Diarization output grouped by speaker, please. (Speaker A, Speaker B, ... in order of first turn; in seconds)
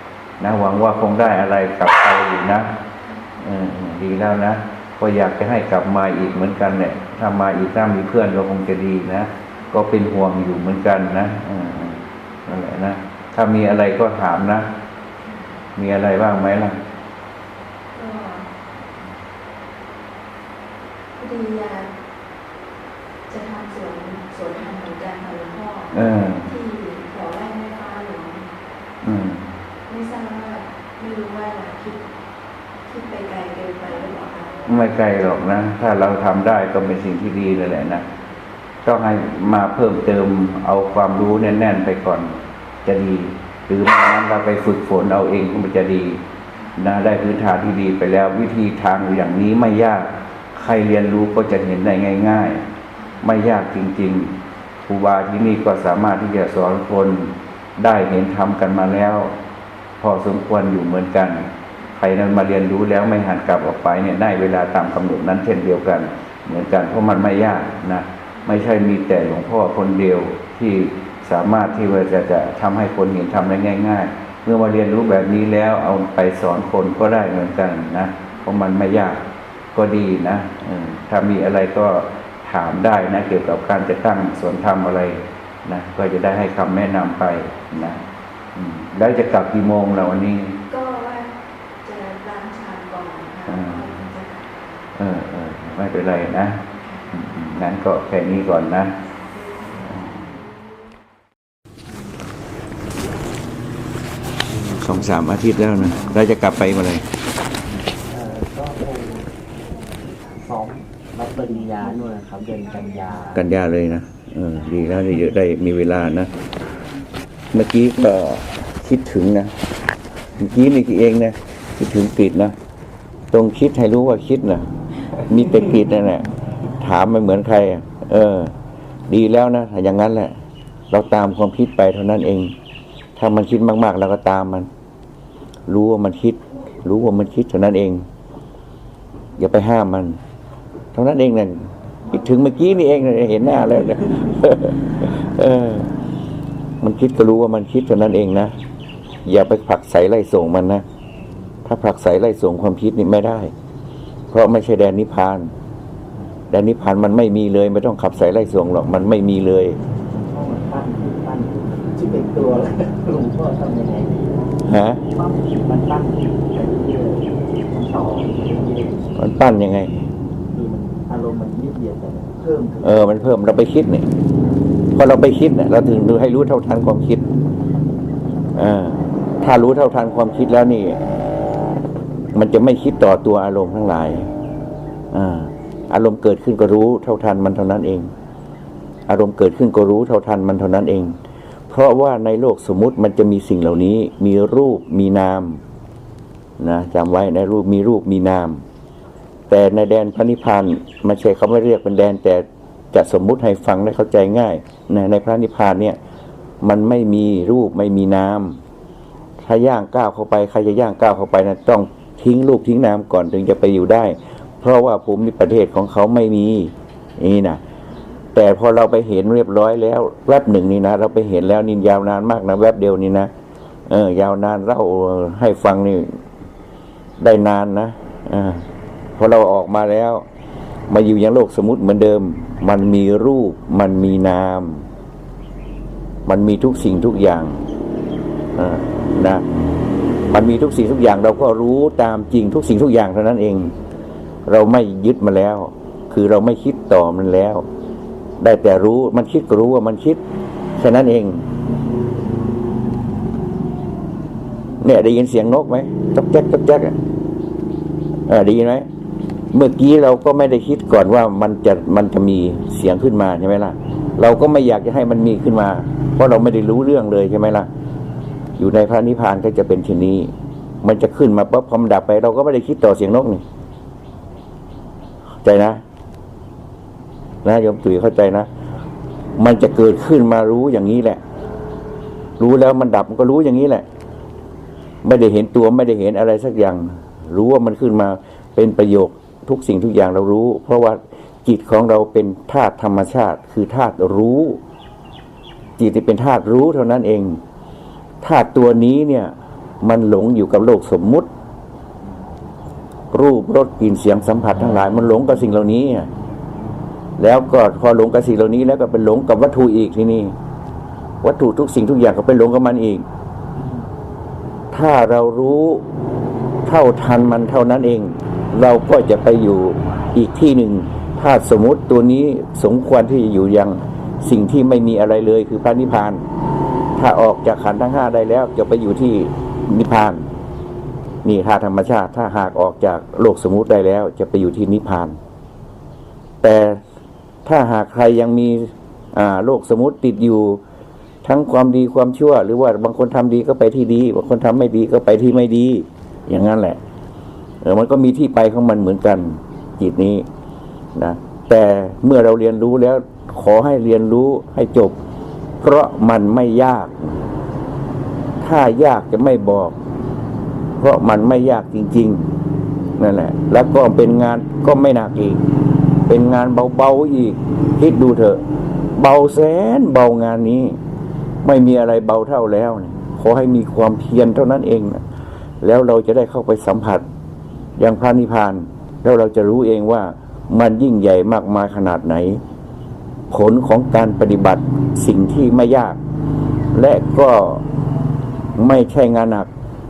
Speaker A: 0.4-2.8, 3.4-14.7, 15.8-16.8, 25.9-26.5, 29.0-29.4, 34.6-38.0, 38.8-46.2, 46.8-52.6, 53.2-54.3, 54.9-59.3, 60.0-79.2, 79.7-88.0, 88.5-90.5, 93.5-94.0, 94.9-96.6, 97.1-98.9, 99.8-100.2, 104.7-107.0, 113.3-116.3, 117.5-119.5, 120.4-122.5, 123.3-128.5, 129.1-130.3, 130.9-132.5, 133.2-134.7, 135.7-138.1, 139.4-140.2, 140.9-145.9, 146.8-148.6, 149.2-150.8, 151.6-153.5, 154.3-155.5, 156.5-159.8, 164.6-165.0, 169.2-169.9, 172.8-174.1, 174.9-177.2, 178.6-181.0, 182.3-184.3, 185.1-188.1, 189.1-191.2, 191.7-195.6, 196.6-198.6, 199.5-206.0, 206.6-208.6, 209.4-217.6, 218.3-223.3, 223.9-226.2, 227.2-228.7, 229.2-230.2, 230.9-234.8, 236.2-237.6, 238.6-239.4, 240.3-243.7, 244.4-247.7, 248.4-250.2, 250.8-251.4, 254.8-257.0, 258.3-258.9, 259.5-267.7, 268.6-270.3, 270.8-273.4, 275.4-275.8, 277.4-278.5, 279.4-281.2, 282.4-283.9, 285.0-294.6, 295.8-297.4, 298.2-301.3, 303.1-306.1, 307.2-310.3, 311.2-313.1, 314.7-315.9, 316.6-326.2, 326.9-330.3, 331.2-335.2, 336.4-336.8, 337.4-340.6, 341.2-346.8, 347.6-350.2, 350.9-355.0, 355.6-357.2, 358.4-359.8, 360.8-362.3, 363.0-365.4, 366.1-368.4, 368.9-370.8, 371.4-375.0, 375.6-377.0, 377.8-382.4, 383.3-386.0, 386.7-387.6, 388.6-389.5
Speaker B: 15.2-15.5, 17.9-18.5, 21.1-21.9, 23.3-25.9, 26.4-28.5, 29.9-32.0, 32.8-34.9, 90.7-91.3, 91.8-94.7, 96.7-97.1, 99.0-100.1
Speaker C: 107.7-109.3, 110.2-113.5, 160.1-164.3, 165.1-169.1, 170.5-173.3